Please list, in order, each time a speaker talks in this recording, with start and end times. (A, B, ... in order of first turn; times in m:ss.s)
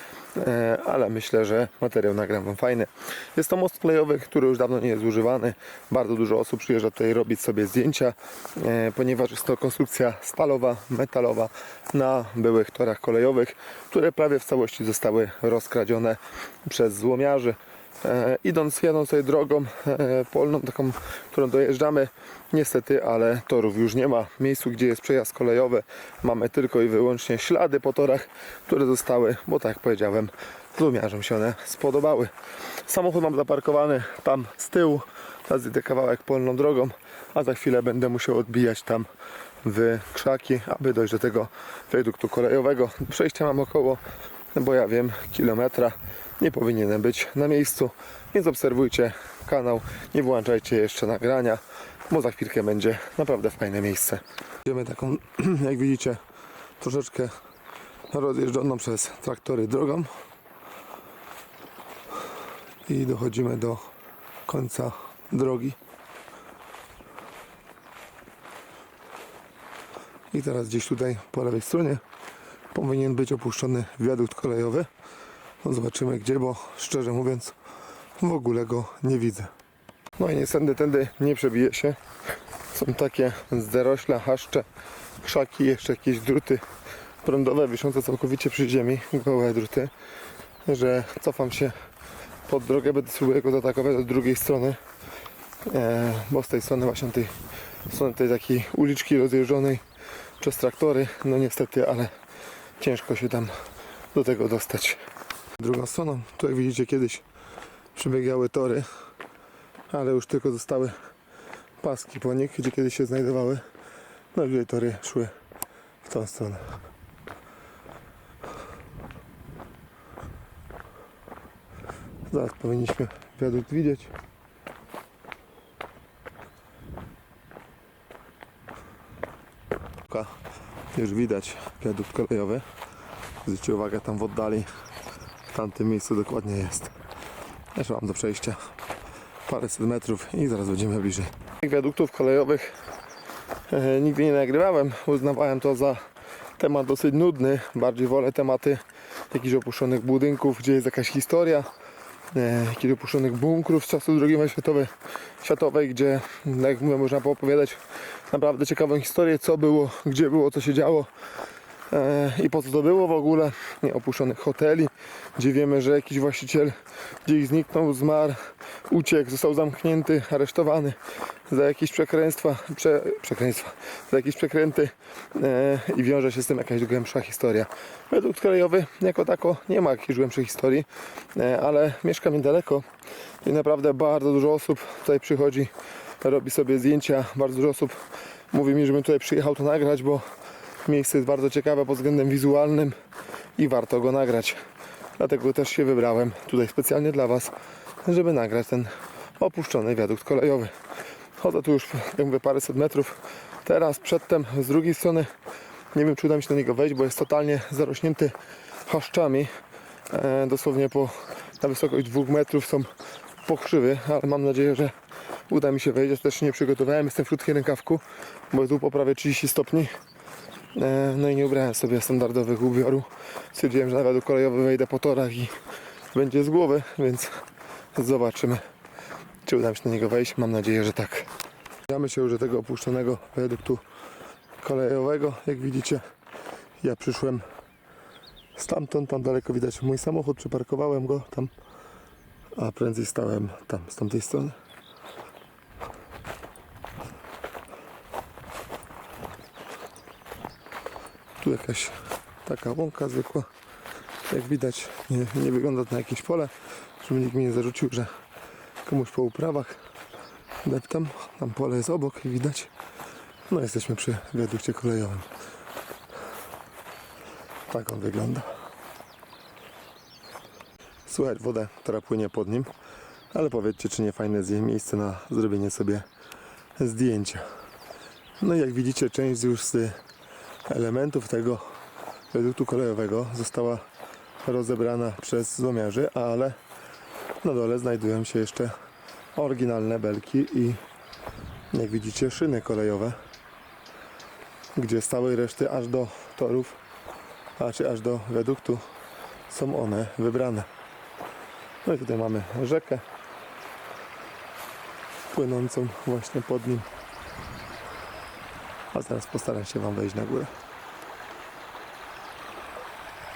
0:00.4-0:32.3 A
0:32.8-0:39.1 A
0:39.6-0:44.0 A
0:44.6-0:56.2 A
0:56.8-0:57.3 A
0:58.1-1:00.1 A
1:02.9-1:03.9 A
1:04.5-1:05.8 A
1:10.3-1:12.0 A
1:12.7-1:14.9 A
1:15.6-1:17.6 A
1:18.2-1:19.5 A
1:20.2-1:22.0 A
1:22.7-1:24.7 A
1:25.2-1:26.6 A
1:27.2-1:29.9 A
1:30.7-1:31.8 A
1:32.5-1:34.8 A
1:35.7-1:37.3 A
1:37.9-1:39.8 A
1:40.4-1:42.1 A
1:42.8-1:43.5 A
1:44.1-1:45.0 A
1:45.6-1:47.2 A
1:48.0-1:48.9 A
1:49.9-1:51.0 A
1:51.8-1:53.6 A
1:54.3-1:55.3 A
1:56.0-1:56.7 A
2:02.3-2:04.1 A
2:10.1-2:10.3 A
2:10.9-2:12.6 A
2:13.4-2:14.7 A
2:15.5-2:16.9 A
2:17.7-2:18.7 A
2:19.4-2:22.7 A
2:23.7-2:26.0 A
2:26.6-2:31.7 A
2:32.3-2:41.1 A
2:41.9-2:51.0 A
2:51.5-3:02.8 A
3:03.4-3:10.2 A
3:10.8-3:13.0 A
3:13.6-3:14.6 A
3:15.2-3:17.5 A
3:18.0-3:20.7 A
3:21.4-3:25.3 A
3:25.9-3:28.3 A
3:28.9-3:29.5 A
3:30.1-3:32.9 A
3:33.4-3:34.9 A
3:35.5-3:39.9 A
3:40.7-3:45.5 A
3:46.1-3:47.3 A
3:47.9-3:48.6 A
3:49.4-3:51.3 A
3:51.9-3:53.8 A
3:54.6-3:56.0 A
3:56.8-3:57.4 A
3:58.5-4:01.5 A
4:02.5-4:04.6 A
4:11.4-4:13.5 A
4:14.3-4:18.1 A
4:18.8-4:19.8 A
4:20.6-4:22.7 A
4:23.5-4:25.3 A
4:27.7-4:28.5 A
4:31.1-4:32.7 A
4:33.3-4:36.0 A
4:36.8-4:37.4 A
4:38.4-4:40.0 A
4:40.7-4:41.7 A
4:42.3-4:43.8 A
4:44.4-4:46.6 A
4:47.4-4:48.7 A
4:49.4-4:50.8 A
4:51.7-4:53.2 A
4:54.8-4:56.8 A
4:57.6-4:58.8 A
4:59.5-5:00.7 A
5:01.8-5:03.0 A
5:05.3-5:06.9 A
5:08.9-5:10.5 A